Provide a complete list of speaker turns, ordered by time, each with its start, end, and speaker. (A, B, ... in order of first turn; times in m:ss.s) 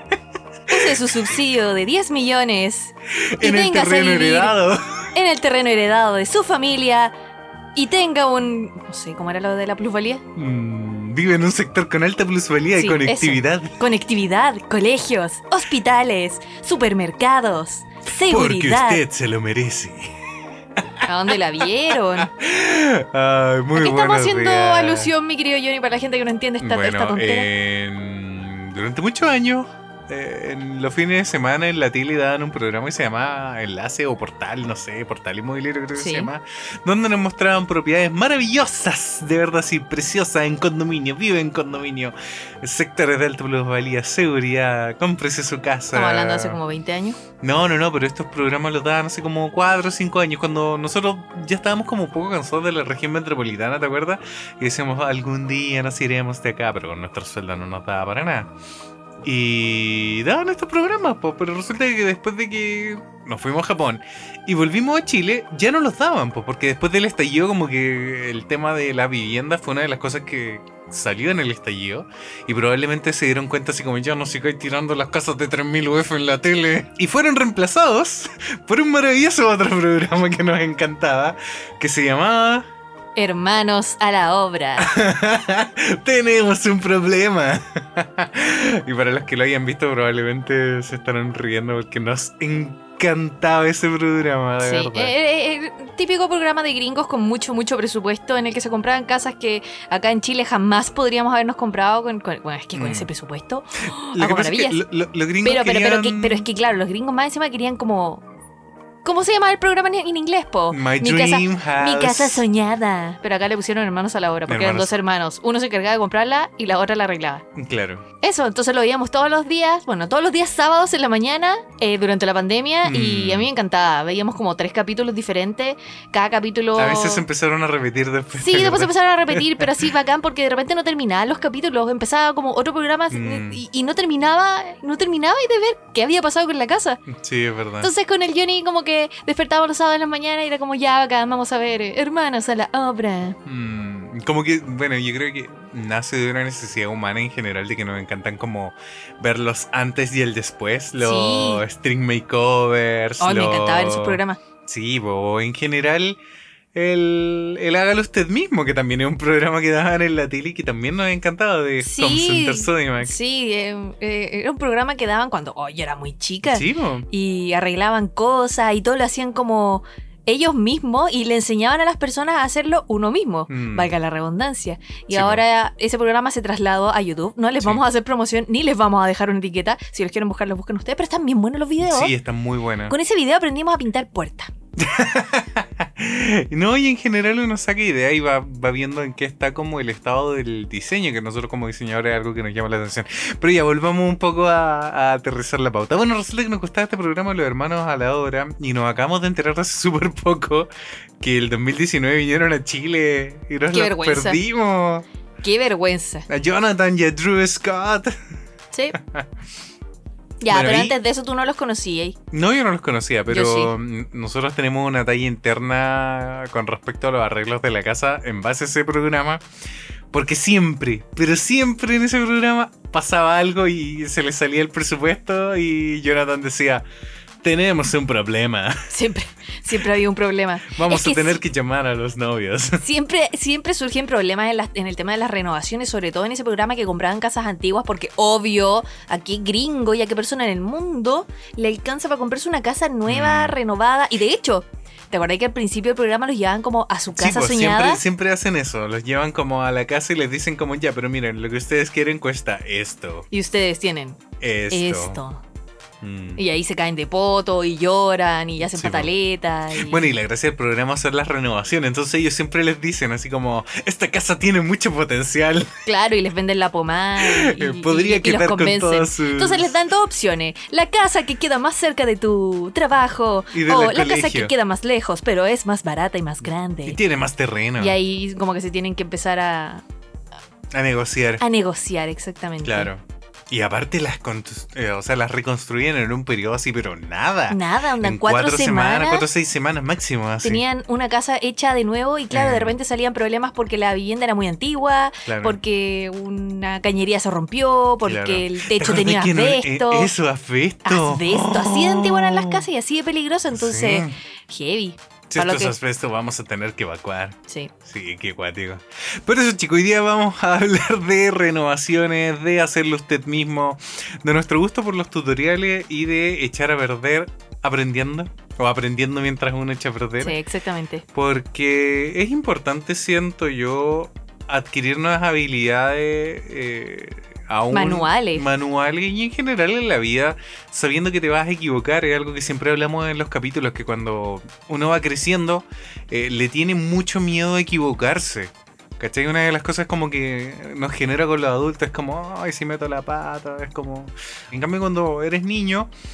0:00.7-0:01.2 A
0:00.7-0:04.5 B
0:03.1-0:05.1 A
0:05.1-0:07.1 B
0:07.8-0:10.2 B
0:10.4-0:13.8 A
0:12.8-0:19.0 B
0:18.2-0:21.3 A
0:21.0-0:22.3 B
0:21.9-0:25.1 A
0:23.8-0:27.5 B
0:26.6-0:46.6 A
0:36.0-0:36.3 B
0:45.9-0:47.2 B
0:47.4-0:58.5 A
0:59.2-1:22.7 A
1:23.2-1:25.0 B
1:24.8-1:35.1 A
1:34.6-1:44.8 B
1:42.8-1:43.1 A
1:44.1-1:46.5 A
1:45.4-1:48.2 B
1:49.0-1:57.4 B
1:50.7-1:52.4 A
1:54.5-1:54.9 A
1:57.6-1:58.0 A
1:58.2-2:07.2 B
2:02.8-2:03.5 A
2:06.8-2:09.8 A
2:08.4-2:17.0 B
2:13.1-2:13.6 A
2:17.1-2:17.9 A
2:17.8-2:23.4 B
2:23.4-2:36.2 A
2:31.0-2:31.6 B
2:33.2-2:34.4 B
2:36.7-2:43.2 A
2:41.8-3:02.1 B
2:46.5-2:47.1 A
2:53.5-2:53.9 A
2:55.1-2:55.4 A
3:01.8-3:03.0 A
3:02.9-3:04.5 B
3:04.8-3:25.1 A
3:23.7-3:24.4 B
3:25.4-3:26.3 B
3:26.3-3:28.2 A
3:29.0-3:29.3 A
3:30.4-3:32.2 B
3:30.5-3:31.0 A
3:32.3-3:39.4 A
3:33.3-3:33.7 B
3:40.1-3:46.8 A
3:47.4-3:48.9 A
3:48.9-3:51.4 B
3:50.7-3:52.8 A
3:52.8-4:08.0 B
4:03.1-4:03.6 A
4:07.2-4:13.3 A
4:13.3-4:15.4 B
4:14.4-4:15.2 A
4:16.0-4:16.4 A
4:16.4-4:20.0 B
4:18.7-4:19.1 A
4:19.7-4:25.8 A
4:25.8-4:37.0 B
4:27.2-4:29.8 A
4:33.5-4:34.5 A
4:36.9-4:38.0 A
4:37.8-4:39.8 B
4:40.7-4:41.4 A
4:41.4-4:42.9 B
4:42.6-4:50.6 A
4:47.5-4:49.3 B
4:50.4-5:00.1 B
4:52.3-4:52.8 A
4:55.3-4:55.6 A
4:58.0-5:02.7 A
5:00.9-5:05.8 B
5:03.5-5:04.2 A
5:05.3-5:20.4 A
5:20.2-5:21.0 B
5:21.1-5:45.9 A
5:27.7-5:28.4 B